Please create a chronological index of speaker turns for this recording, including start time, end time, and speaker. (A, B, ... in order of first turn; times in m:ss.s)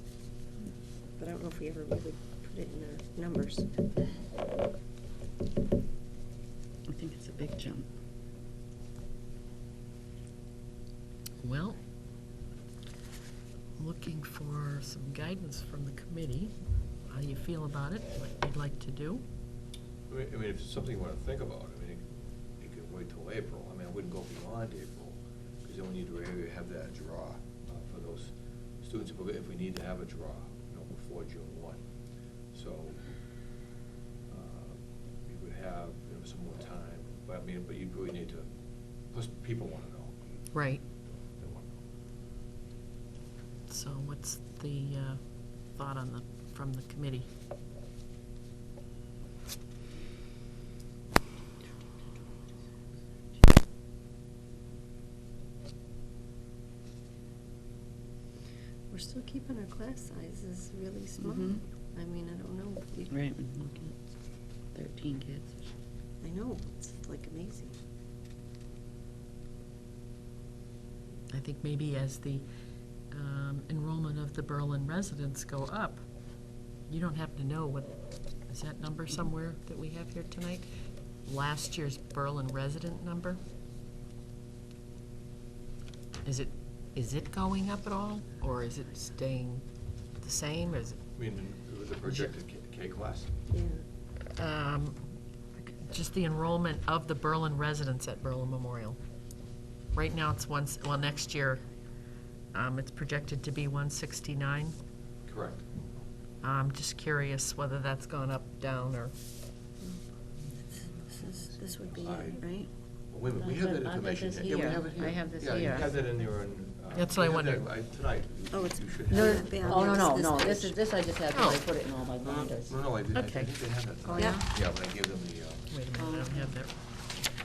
0:01.2-0:03.8 A
0:06.9-0:07.9 B
0:11.4-0:11.8 C
0:13.8-0:19.2 C
0:20.1-0:31.9 D
0:32.4-0:33.2 D
0:34.3-0:40.2 D
0:40.5-0:40.8 C
0:41.2-0:41.7 D
0:43.7-0:47.3 C
0:58.9-1:03.2 A
1:01.2-1:01.6 B
1:03.1-1:04.0 B
1:04.7-1:05.6 B
1:06.2-1:07.8 A
1:11.3-1:12.5 C
1:13.1-1:20.7 C
1:21.2-1:23.4 C
1:26.2-1:31.0 C
1:31.2-1:33.3 D
1:33.5-1:33.8 A
1:34.4-1:35.0 C
1:35.8-1:39.0 C
1:39.9-1:41.7 C
1:42.5-1:44.8 C
1:45.2-1:45.7 D
1:46.4-1:49.1 C
1:50.8-1:52.7 A
1:51.9-1:59.9 D
1:54.4-1:55.8 E
1:54.5-1:55.2 B
1:57.0-1:57.7 C
1:58.5-2:00.8 A
1:59.1-2:02.7 E
2:01.3-2:01.6 C
2:02.2-2:05.7 D
2:03.1-2:03.5 C
2:04.1-2:04.5 E
2:04.1-2:04.4 A
2:05.7-2:06.8 C
2:06.0-2:06.3 E